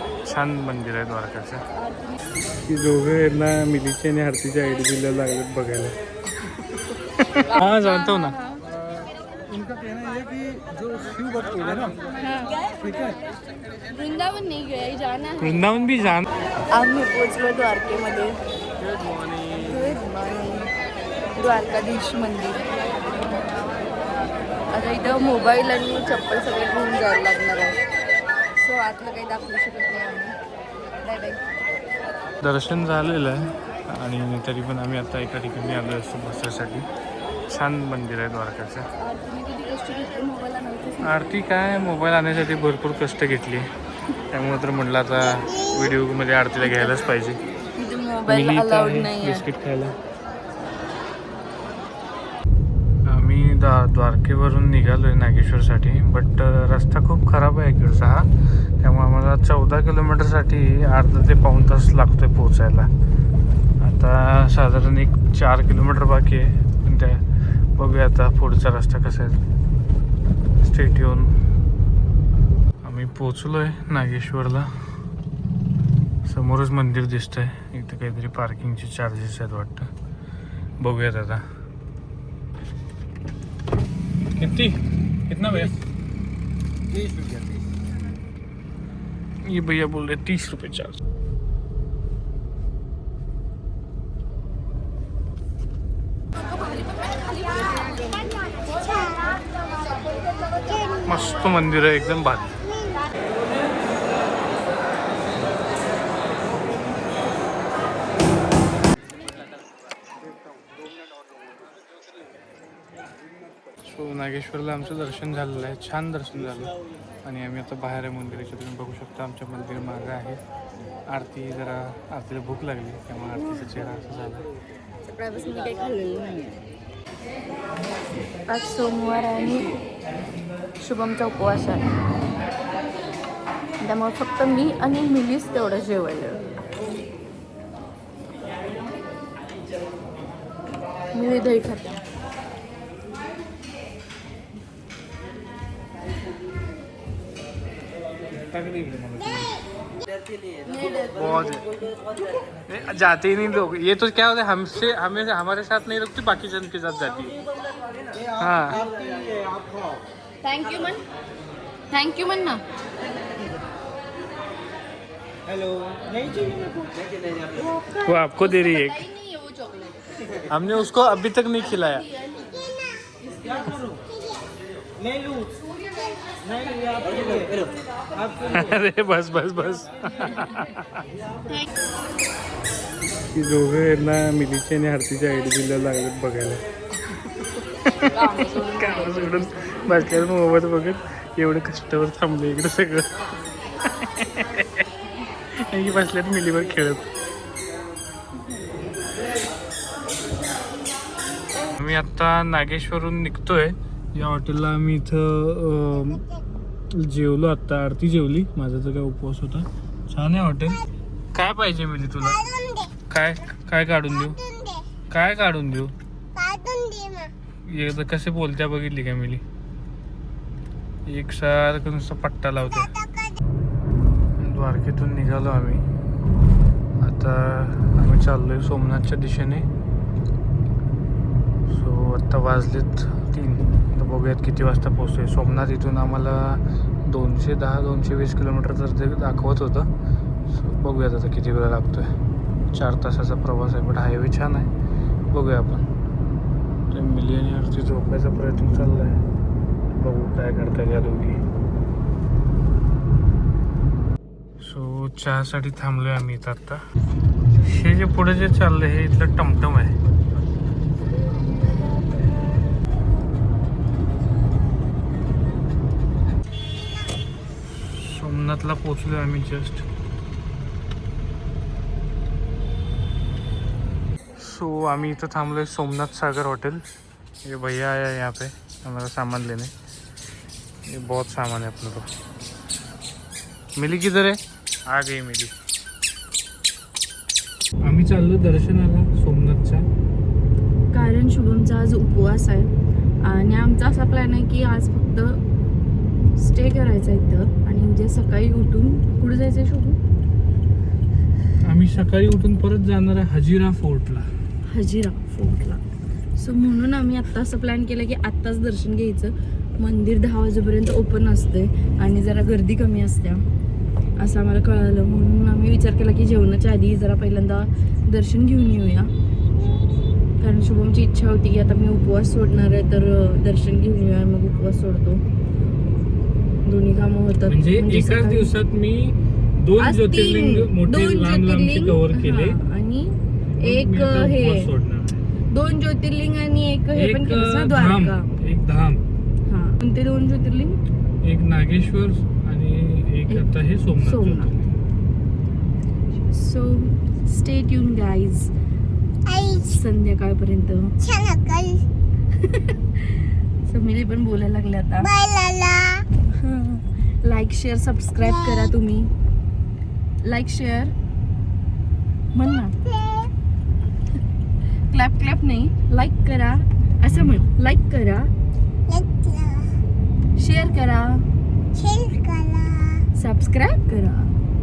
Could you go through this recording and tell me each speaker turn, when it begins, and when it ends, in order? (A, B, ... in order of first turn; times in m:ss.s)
0:00.2-0:01.6 A
0:01.8-0:02.2 B
0:02.6-0:06.0 A
0:07.2-0:08.4 A
0:07.5-0:08.6 B
0:09.5-0:11.9 C
0:12.2-0:12.9 B
0:13.9-0:15.5 B
0:15.4-0:16.3 A
0:16.7-0:18.4 B
0:18.8-0:20.0 A
0:19.6-0:20.7 B
0:21.3-0:22.7 B
0:24.7-0:27.8 B
0:28.6-0:30.4 B
0:31.0-0:31.4 B
0:32.4-0:36.9 A
0:37.5-0:38.9 A
0:39.0-0:41.2 B
0:41.0-0:43.7 A
0:44.3-0:47.4 A
0:47.7-0:49.4 B
0:48.3-0:50.0 A
0:53.0-0:58.3 A
0:58.8-1:02.9 A
1:03.8-1:07.2 A
1:07.8-1:09.4 A
1:10.6-1:11.4 A
1:12.8-1:14.7 A
1:16.2-1:19.9 A
1:20.8-1:21.4 A
1:24.4-1:25.8 A
1:29.4-1:31.0 A
1:38.8-1:39.3 C
1:41.0-1:42.6 A
1:53.8-1:56.7 A
1:57.2-2:00.4 A
2:01.1-2:04.4 A
2:05.0-2:06.6 B
2:08.5-2:09.8 B
2:10.8-2:11.9 B
2:13.8-2:16.5 B
2:21.1-2:22.0 B
2:28.5-2:29.6 A
2:30.7-2:31.1 B
2:31.0-2:31.6 A
2:32.7-2:37.4 A
2:38.4-2:38.8 A
2:40.4-2:41.0 B
2:41.9-2:42.6 B
2:48.0-2:49.0 A
2:48.8-2:49.8 B
2:50.5-2:52.1 A
2:53.6-2:53.8 A
2:58.4-3:01.0 A
3:03.3-3:07.2 A
3:07.8-3:13.1 A
3:08.1-3:09.9 B
3:13.9-3:14.8 A
3:15.5-3:17.1 A
3:21.7-3:26.2 A
3:26.9-3:32.5 A
3:33.1-3:34.4 A
3:35.1-3:35.9 A
3:36.4-3:37.3 C
3:37.6-3:39.4 A
3:41.0-3:42.9 A
3:44.4-3:45.8 A
3:47.0-3:49.7 A
3:51.7-3:59.9 A
4:00.5-4:02.1 A
4:02.7-4:04.7 A
4:05.3-4:05.9 A
4:06.9-4:09.2 A
4:09.9-4:11.4 A
4:14.6-4:16.8 A
4:17.6-4:20.0 A
4:27.8-4:29.8 A
4:34.4-4:36.8 A
4:37.4-4:39.7 A
4:40.8-4:42.1 A
4:43.8-4:45.5 A
4:47.8-4:49.8 A
4:50.9-4:52.7 B
4:53.2-4:55.4 B
4:56.4-5:00.0 B
5:01.6-5:04.3 A
5:04.7-5:05.8 B
5:06.4-5:13.4 B
5:14.2-5:19.1 B
5:20.4-5:25.2 B
5:26.6-5:28.5 B
5:27.5-5:32.6 A
5:29.8-5:34.7 B
5:33.5-5:35.2 A
5:35.5-5:38.3 B
5:36.9-5:39.0 A
5:39.4-5:40.8 B
5:41.2-5:44.7 A
5:44.0-5:44.5 B
5:46.3-5:48.5 B
5:49.5-5:51.0 B
5:51.0-5:51.8 C
5:52.4-5:53.0 B
5:53.6-5:55.1 B
5:55.1-5:56.0 C
5:56.3-5:59.1 B
6:00.2-6:00.9 B
6:02.3-6:02.7 B
6:02.9-6:03.3 C
6:04.9-6:08.3 B
6:07.1-6:07.4 A
6:08.9-6:09.7 C
6:10.4-6:11.2 B
6:11.8-6:13.0 C
6:13.2-6:14.3 B